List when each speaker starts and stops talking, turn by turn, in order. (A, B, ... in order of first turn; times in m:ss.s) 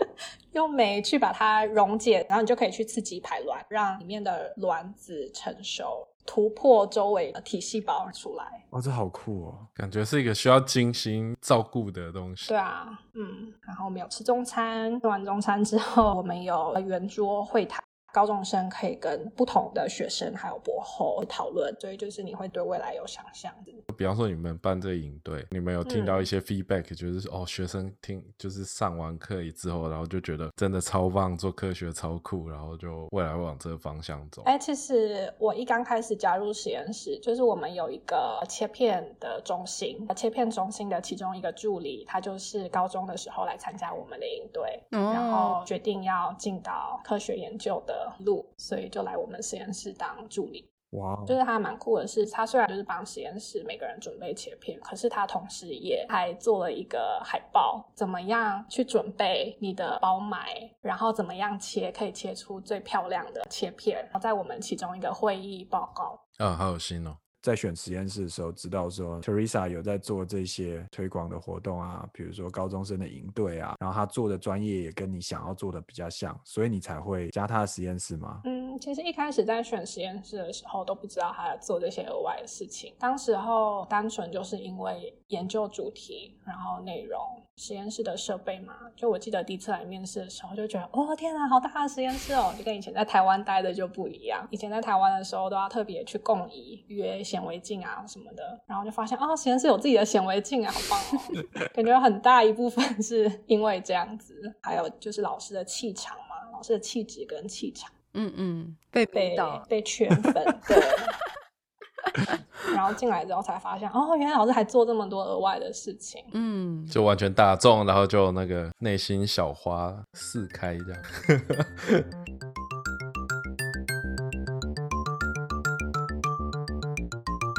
0:00.6-0:08.6 A
0:08.7-0:09.7 B
0:09.8-0:12.5 C
0:12.5-0:23.8 A
0:23.9-0:34.5 C
0:34.5-0:50.6 A
0:44.9-0:45.6 D
0:50.9-0:51.4 B
0:51.3-1:06.2 A
1:06.4-1:07.2 C
1:07.4-1:18.4 B
1:18.4-1:47.9 A
1:48.1-1:49.7 D
1:49.2-1:51.1 A
1:52.7-1:56.3 A
1:56.3-1:57.0 D
1:56.9-2:02.0 C